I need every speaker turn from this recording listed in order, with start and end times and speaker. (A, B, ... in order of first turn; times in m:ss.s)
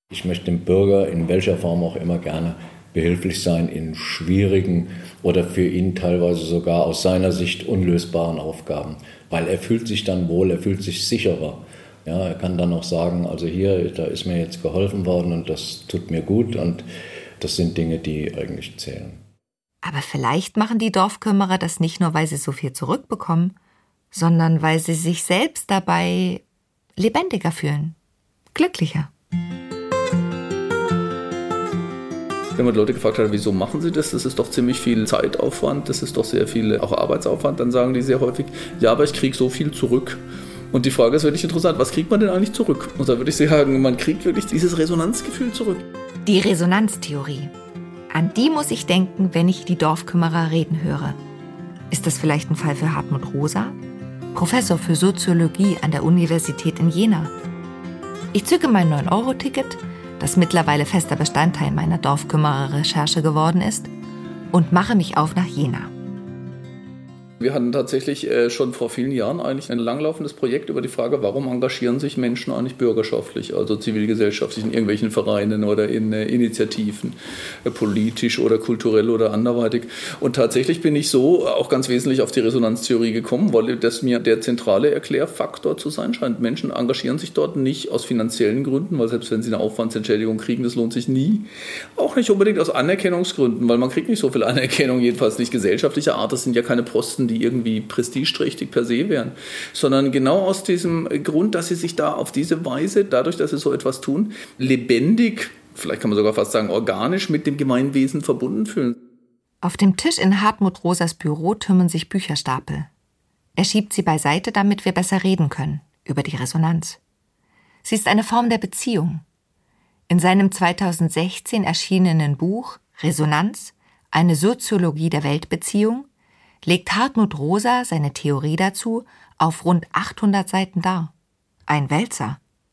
0:00.1-0:16.8 A
0:17.4-0:19.2 A
0:19.8-0:23.6 B
0:24.1-0:26.4 B
0:27.0-0:28.0 B
0:28.5-0:29.1 B
0:32.6-0:45.8 C
0:46.3-0:47.5 B
0:48.1-0:51.2 B
0:51.9-0:53.8 B
0:54.3-0:57.3 B
0:58.3-1:03.9 B
1:04.5-1:05.9 B
1:07.4-1:31.5 C
1:32.0-1:49.0 C
1:49.6-1:52.9 B
1:53.6-1:57.0 B
1:57.8-1:59.2 B
2:00.1-2:06.1 B
2:06.6-2:11.1 B
2:11.7-2:12.4 B